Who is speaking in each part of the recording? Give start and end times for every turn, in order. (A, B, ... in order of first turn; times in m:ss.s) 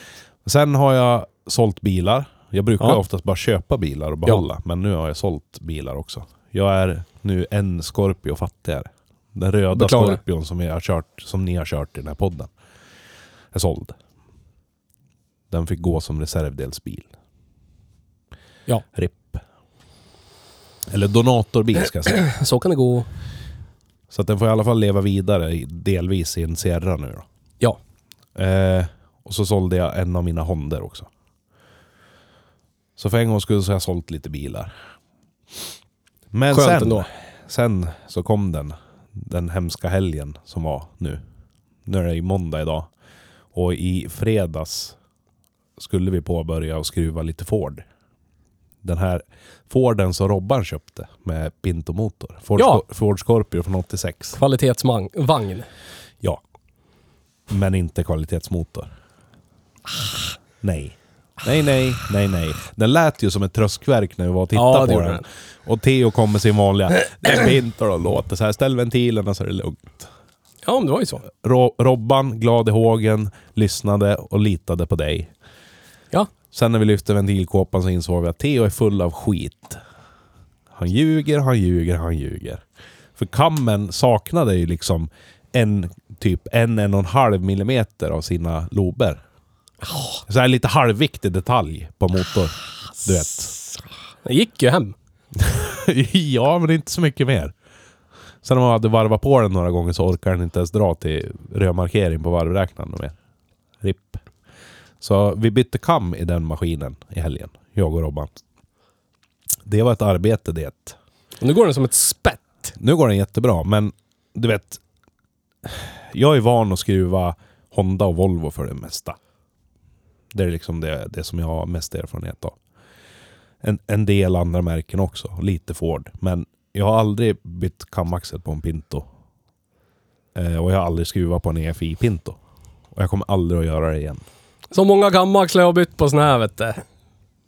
0:00.4-0:12.5 A
0:09.7-0:10.2 B
0:13.5-0:14.0 A
0:15.5-0:17.1 A
0:18.9-0:19.4 A
0:20.9-0:22.2 A
0:22.2-0:23.1 B
0:24.1-0:27.2 A
0:28.3-0:31.1 A
0:33.0-0:34.7 A
0:36.3-0:41.2 A
0:36.5-0:37.1 B
0:41.8-0:42.9 A
0:43.5-0:44.9 A
0:45.8-0:47.8 A
0:48.8-0:54.4 A
0:52.6-0:52.8 B
0:54.3-0:55.7 B
0:57.5-0:58.9 A
1:00.6-1:10.1 A
1:04.5-1:05.2 B
1:10.6-1:11.2 B
1:11.3-1:15.3 A
1:16.5-1:19.8 A
1:20.7-1:22.6 A
1:23.2-1:29.2 A
1:30.3-1:33.5 A
1:34.2-1:34.9 B
1:35.4-1:37.5 A
1:38.4-1:43.1 A
1:43.8-1:44.2 A
1:45.0-1:48.3 A
1:49.6-1:51.0 A
1:51.4-1:52.7 B
1:52.8-1:54.8 A
1:55.6-1:59.2 A
2:00.3-2:02.6 A
2:03.6-2:09.1 A
2:10.3-2:12.4 A
2:12.9-2:14.2 A
2:14.7-2:16.8 B